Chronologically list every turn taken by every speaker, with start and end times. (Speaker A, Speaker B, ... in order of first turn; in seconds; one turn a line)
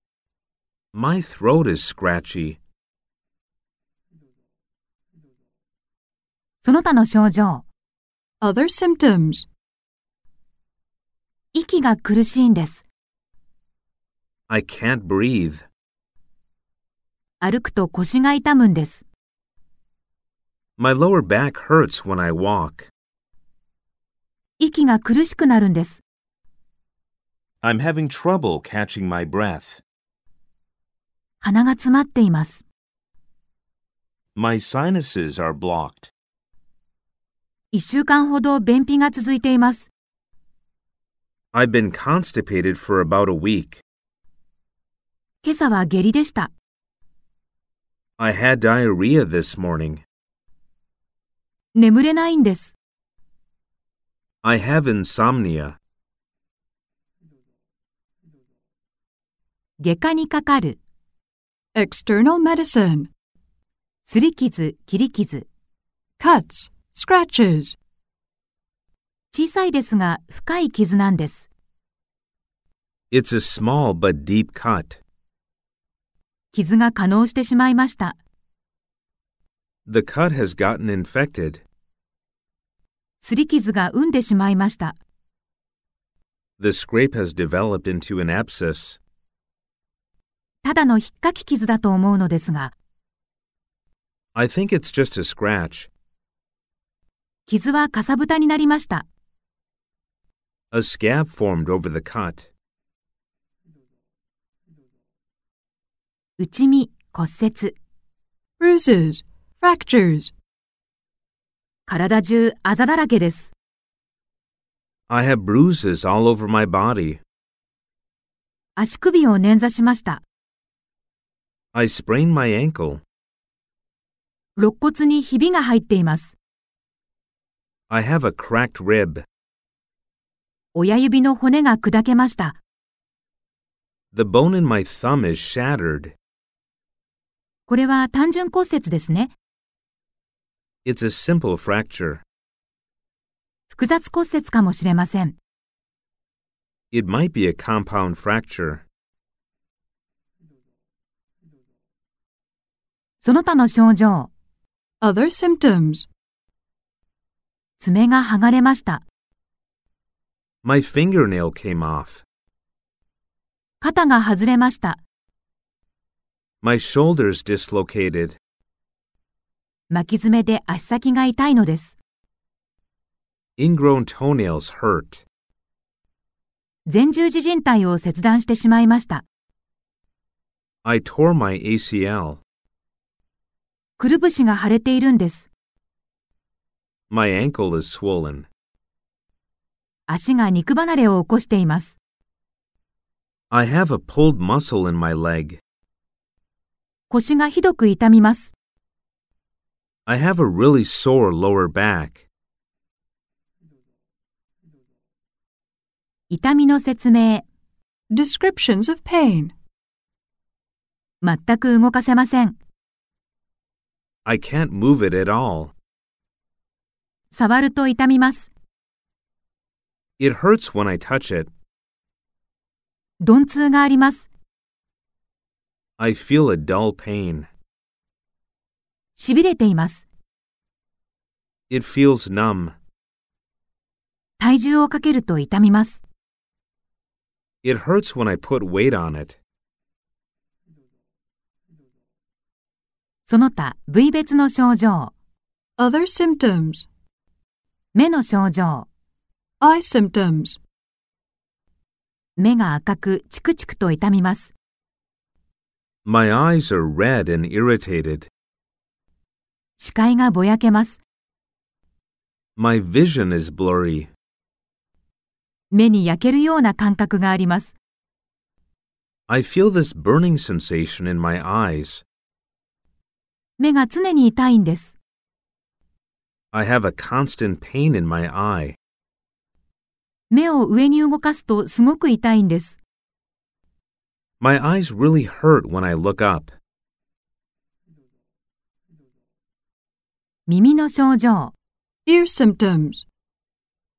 Speaker A: 0.9-2.6
Speaker B: 6.6-7.6
Speaker C: 8.4-9.5
Speaker B: 11.5-12.9
Speaker A: 14.5-15.7
Speaker B: 17.4-19.1
Speaker A: 20.8-22.9
Speaker B: 24.6-26.0
Speaker A: 27.6-29.8
Speaker B: 31.4-32.6
Speaker A: 34.3-36.1
Speaker B: 37.7-39.9
Speaker A: 41.5-43.8
Speaker B: 45.4-46.5
Speaker A: 48.2-50.0
Speaker B: 51.8-52.8
Speaker A: 54.4-55.8
Speaker B: 59.8-60.8
Speaker C: 61.8-63.1
Speaker B: 64.1-65.5
Speaker C: 66.2-67.8
Speaker B: 69.3-71.5
Speaker A: 73.1-75.0
Speaker B: 76.5-78.2
Speaker A: 79.9-81.6
Speaker B: 83.2-85.0
Speaker A: 86.6-89.0
Speaker B: 90.6-92.7
Speaker A: 94.3-95.9
Speaker B: 97.5-99.1
Speaker A: 100.7-102.5
Speaker B: 106.4-107.8
Speaker C: 108.6-110.3
Speaker B: 111.9-113.5
Speaker A: 115.1-117.2
Speaker B: 118.8-120.2
Speaker A: 121.7-123.0
Speaker B: 124.6-126.4
Speaker A: 127.9-129.2
Speaker B: 130.8-132.6
Speaker A: 134.1-136.1
Speaker B: 137.7-139.3
Speaker A: 140.8-142.2
Speaker B: 143.7-145.4
Speaker A: 146.9-148.8
Speaker B: 153.2-154.3
Speaker C: 155.0-156.1
Speaker B: 157.8-159.0
Speaker A: 160.6-162.2
Speaker B: 163.8-165.0
Speaker A: 166.6-168.4
Speaker B: 169.9-172.0
Speaker A: 173.6-175.2
Speaker B: 176.9-179.2
Speaker A: 180.8-182.4
Speaker B: 184.0-185.5
Speaker A: 187.1-188.5
Speaker B: 190.1-192.0
Speaker A: 193.5-195.6
Speaker B: 197.1-198.5
Speaker A: 200.1-202.2
Speaker B: 206.3-207.4
Speaker C: 208.1-209.5
Speaker B: 211.2-212.6
Speaker A: 214.2-215.7
Speaker B: 217.3-218.5
Speaker A: 220.2-221.5
Speaker B: 223.2-224.3
Speaker A: 226.0-227.5
Speaker B: 229.1-230.1
Speaker A: 231.7-232.8
Speaker B: 234.4-236.0
Speaker A: 237.6-239.4
Speaker B: 243.2-245.1
Speaker C: 245.8-246.9
Speaker B: 247.9-248.9
Speaker C: 249.6-250.6
Speaker B: 252.4-254.5
Speaker A: 256.0-258.3
Speaker B: 259.8-261.0
Speaker A: 262.6-264.1
Speaker B: 265.7-267.8
Speaker A: 269.3-272.0
Speaker B: 273.6-275.0
Speaker A: 276.5-278.8
Speaker B: 280.3-282.8
Speaker A: 284.4-286.5
Speaker B: 290.5-291.5
Speaker C: 292.1-293.0